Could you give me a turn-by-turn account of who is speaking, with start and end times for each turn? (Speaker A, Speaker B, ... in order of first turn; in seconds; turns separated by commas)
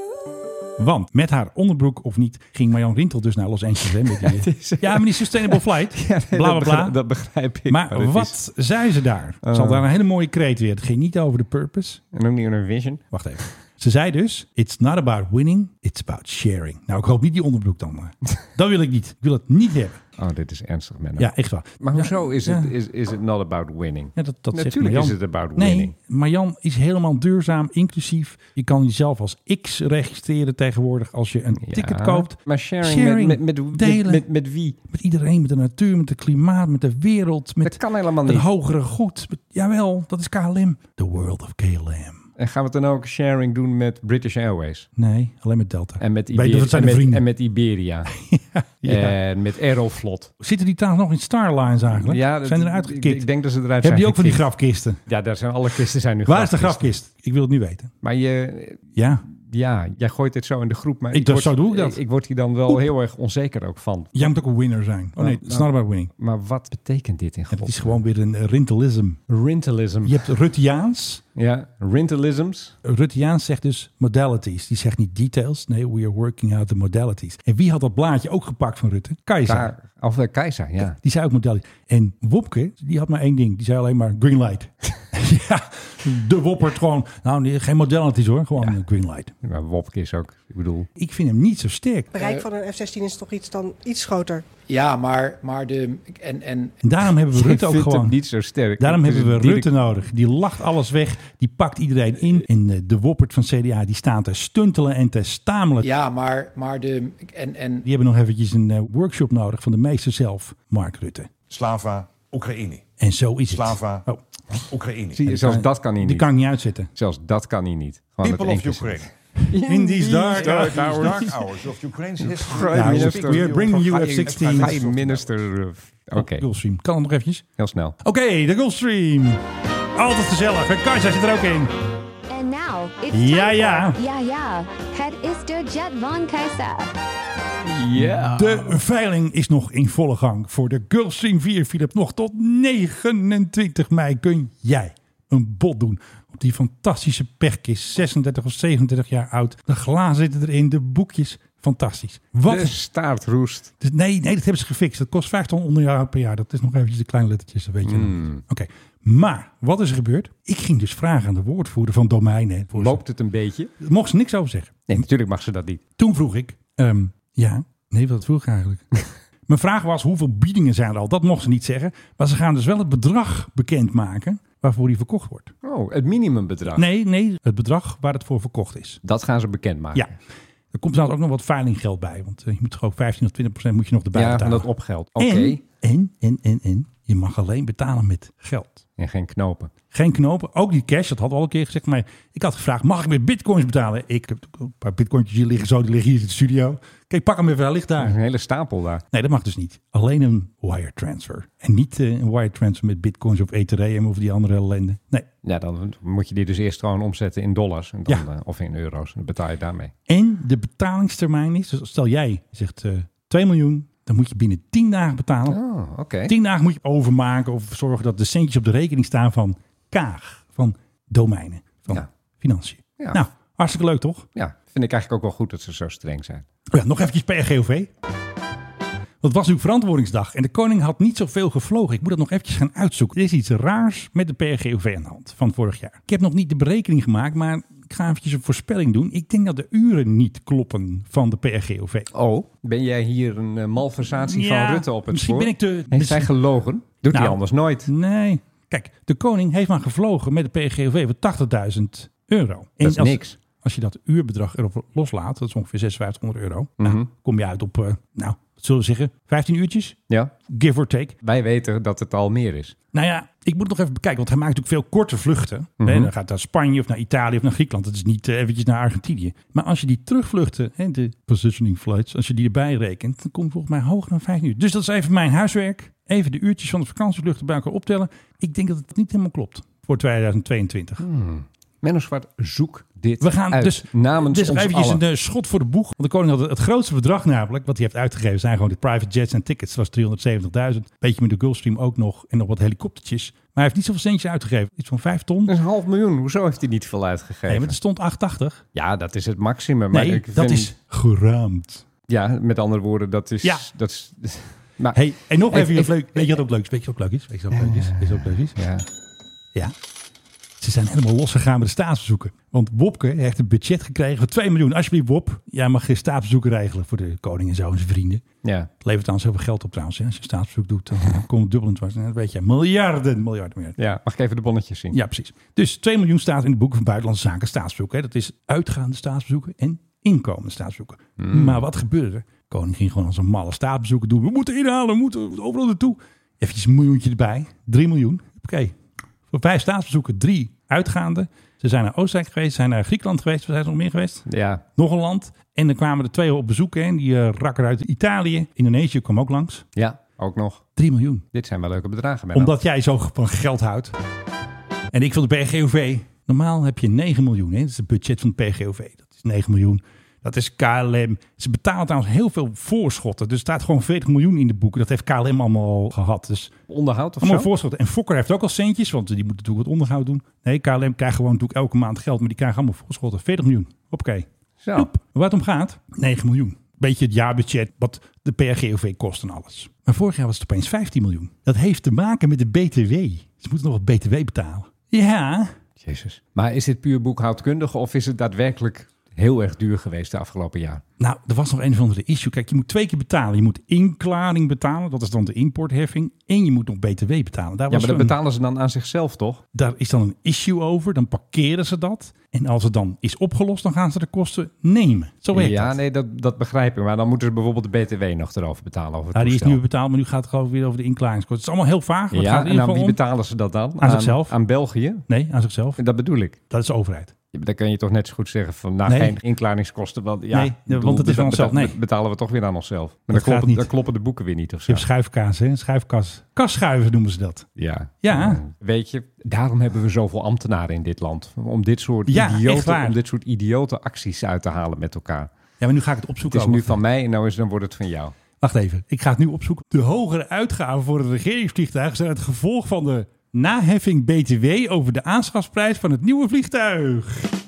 Speaker A: 0.8-7.0, Speaker B: 4.1-8.3, Speaker A: 7.7-12.0, Speaker B: 9.4-9.8, Speaker B: 12.1-13.4, Speaker A: 13.1-20.0, Speaker B: 20.2-25.9, Speaker A: 21.2-22.7, Speaker A: 24.1-34.2, Speaker B: 31.6-34.8, Speaker A: 34.8-42.2, Speaker B: 37.6-38.5, Speaker B: 42.4-44.9, Speaker A: 45.0-47.2, Speaker B: 46.0-48.1, Speaker A: 48.1-49.1, Speaker B: 48.8-50.3, Speaker A: 50.4-53.2, Speaker B: 51.9-54.5, Speaker A: 53.8-55.0, Speaker B: 55.0-56.9, Speaker A: 56.2-57.9, Speaker B: 58.0-64.4, Speaker A: 59.0-59.2, Speaker A: 61.1-62.0, Speaker A: 64.1-66.1, Speaker B: 65.2-68.0, Speaker A: 67.5-69.2, Speaker B: 69.3-70.3, Speaker A: 70.0-71.2, Speaker B: 71.3-72.8, Speaker A: 72.8-79.7, Speaker B: 79.5-81.0, Speaker A: 80.8-89.3, Speaker B: 89.4-90.9, Speaker A: 91.0-92.1, Speaker C: 92.1-94.5, Speaker D: 92.2-92.5, Speaker D: 94.7-96.8, Speaker A: 96.8-98.2, Speaker B: 97.3-99.7, Speaker A: 98.8-105.9, Speaker D: 105.8-107.8, Speaker A: 107.8-111.3, Speaker E: 111.5-112.9, Speaker A: 113.0-114.2, Speaker E: 113.5-114.0, Speaker E: 114.7-115.4, Speaker B: 115.1-116.3, Speaker A: 115.3-116.9, Speaker B: 116.9-121.3, Speaker E: 118.2-119.1, Speaker A: 119.5-121.3, Speaker E: 120.1-125.3, Speaker B: 122.2-126.4, Speaker A: 122.7-124.8, Speaker A: 126.1-127.4, Speaker B: 127.6-128.0, Speaker A: 128.0-129.4, Speaker A: 129.9-131.7, Speaker F: 132.3-136.9, Speaker A: 133.1-133.9, Speaker B: 137.6-138.8, Speaker A: 137.9-152.8, Speaker B: 152.4-153.7, Speaker A: 153.8-163.0, Speaker B: 157.8-158.4, Speaker B: 162.7-163.7, Speaker A: 163.8-164.9, Speaker B: 164.9-165.8, Speaker A: 166.0-168.8, Speaker A: 169.5-175.5, Speaker B: 175.6-176.8, Speaker A: 176.8-179.0, Speaker B: 179.0-180.1, Speaker A: 180.7-188.8, Speaker B: 184.1-185.6, Speaker B: 189.0-189.7, Speaker A: 189.9-198.2, Speaker B: 198.0-199.0, Speaker A: 199.1-205.3, Speaker B: 205.4-209.9, Speaker A: 210.1-215.6, Speaker B: 215.5-216.3, Speaker A: 216.3-224.2, Speaker B: 224.3-226.4, Speaker A: 226.7-227.9, Speaker A: 229.2-242.1, Speaker B: 242.1-247.9, Speaker A: 244.0-246.3, Speaker A: 247.1-261.1, Speaker B: 252.8-253.4, Speaker B: 256.8-257.1, Speaker B: 261.2-262.8, Speaker A: 262.9-281.0, Speaker B: 265.8-266.1, Speaker B: 281.0-285.0, Speaker A: 283.2-295.5, Speaker B: 295.5-297.8, Speaker A: 297.5-298.6, Speaker B: 298.7-300.7, Speaker A: 299.9-301.8, Speaker B: 302.1-305.0, Speaker A: 304.9-308.5, Speaker B: 305.5-306.4, Speaker B: 307.5-308.8, Speaker A: 310.6-318.2, Speaker B: 318.4-318.7, Speaker A: 318.8-323.8, Speaker B: 323.8-325.0, Speaker A: 324.9-338.8, Speaker B: 331.2-331.6, Speaker A: 339.3-349.6, Speaker B: 344.2-344.6, Speaker B: 349.8-350.6, Speaker A: 350.8-351.2, Speaker B: 351.3-352.6, Speaker A: 352.3-353.9, Speaker A: 354.9-366.5, Speaker B: 366.7-367.5, Speaker A: 367.2-385.5, Speaker B: 374.6-374.9, Speaker B: 385.8-390.8, Speaker A: 391.0-398.1, Speaker B: 397.7-399.4, Speaker A: 399.5-405.8, Speaker B: 405.3-409.6, Speaker A: 409.1-413.0, Speaker B: 412.1-415.0, Speaker A: 413.8-414.4, Speaker A: 415.1-415.8, Speaker B: 415.8-416.4, Speaker A: 416.5-417.1, Speaker B: 417.3-424.9, Speaker A: 418.9-419.2, Speaker A: 420.3-421.7, Speaker A: 423.1-423.7, Speaker A: 424.7-427.5, Speaker B: 427.6-435.3, Speaker A: 428.0-428.4, Speaker A: 432.1-433.0, Speaker A: 435.6-436.7, Speaker B: 436.3-438.1, Speaker A: 438.4-447.3